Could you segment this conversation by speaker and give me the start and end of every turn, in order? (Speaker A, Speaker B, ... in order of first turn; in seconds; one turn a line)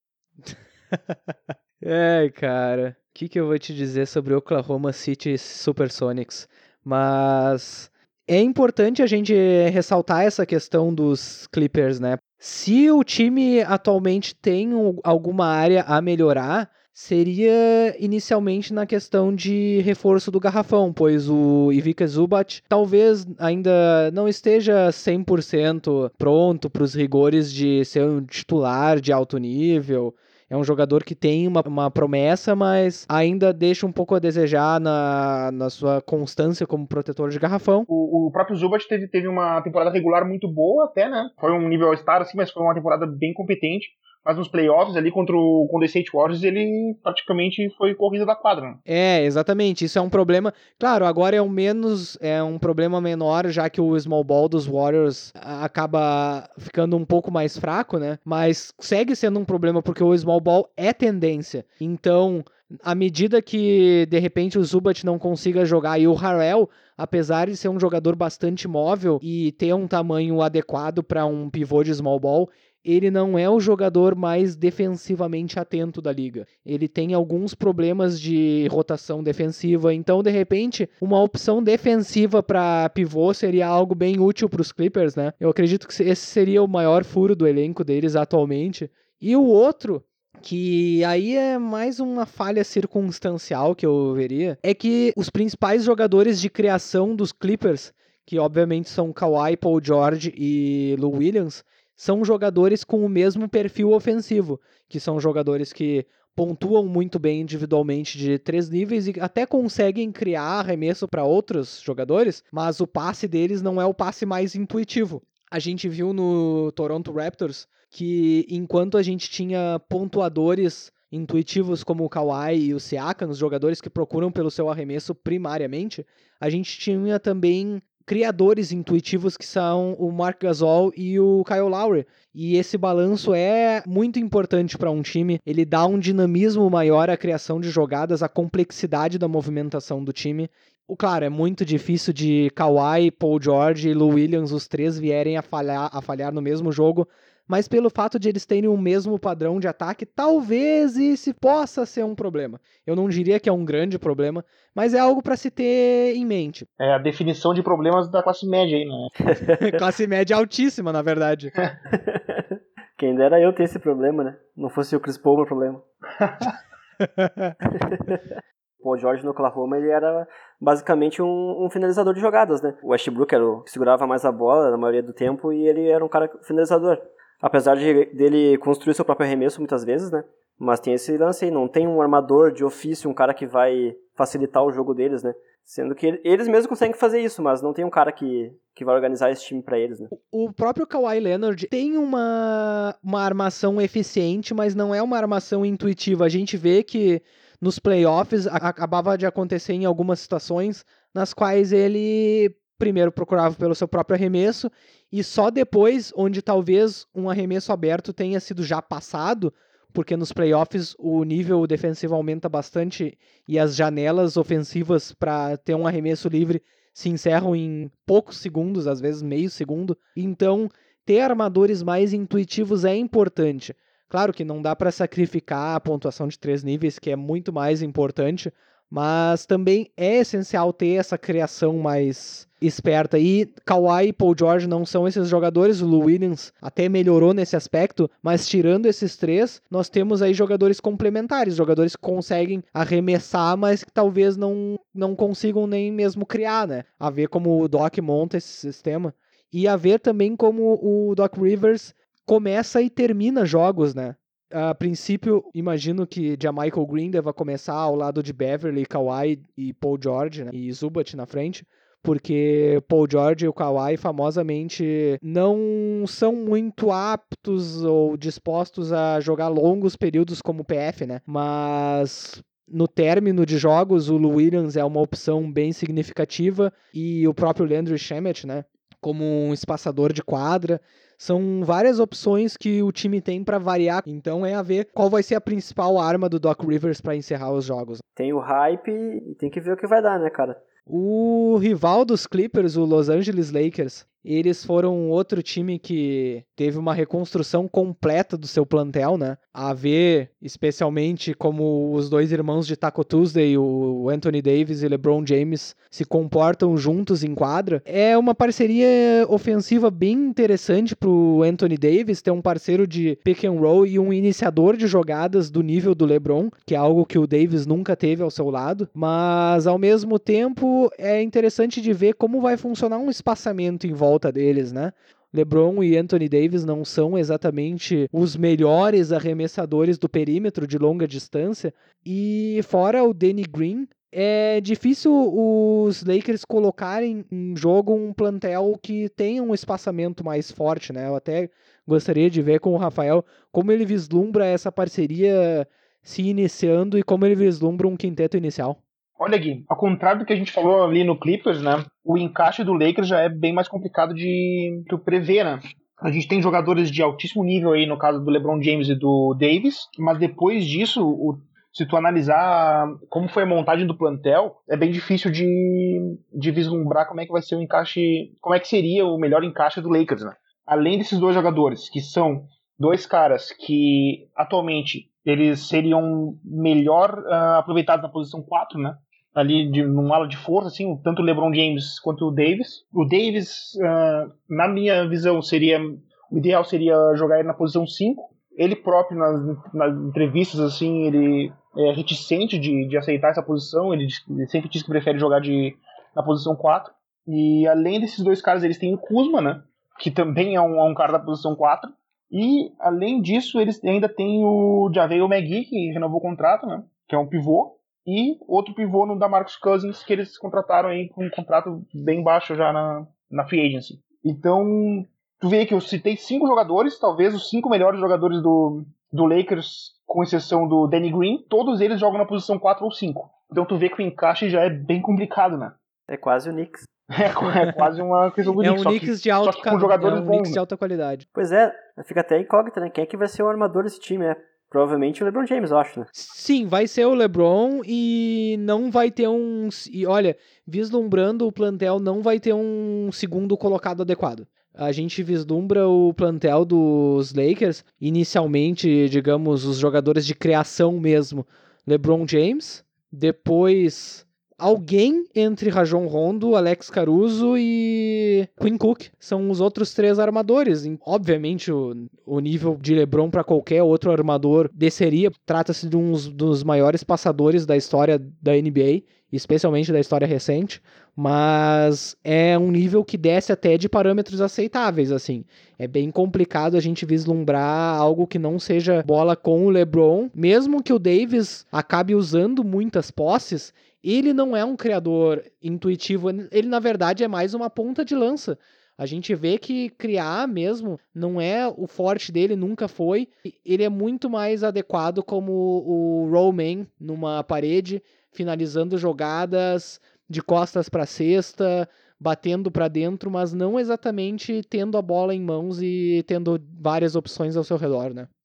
Speaker A: 0.5-37.9
Speaker B: 37.9-48.8
Speaker A: 48.9-156.7
Speaker B: 156.8-159.1
Speaker C: 159.3-159.7
Speaker A: 159.4-161.5
Speaker C: 161.9-165.8
Speaker A: 167.0-167.5
Speaker C: 167.7-168.2
Speaker C: 168.8-190.1
Speaker A: 190.1-288.0
Speaker C: 288.1-290.6
Speaker A: 290.9-348.8
Speaker B: 349.2-425.8
Speaker C: 426.1-426.9
Speaker B: 427.1-430.6
Speaker A: 428.6-431.2
Speaker C: 431.3-436.1
Speaker A: 436.1-508.3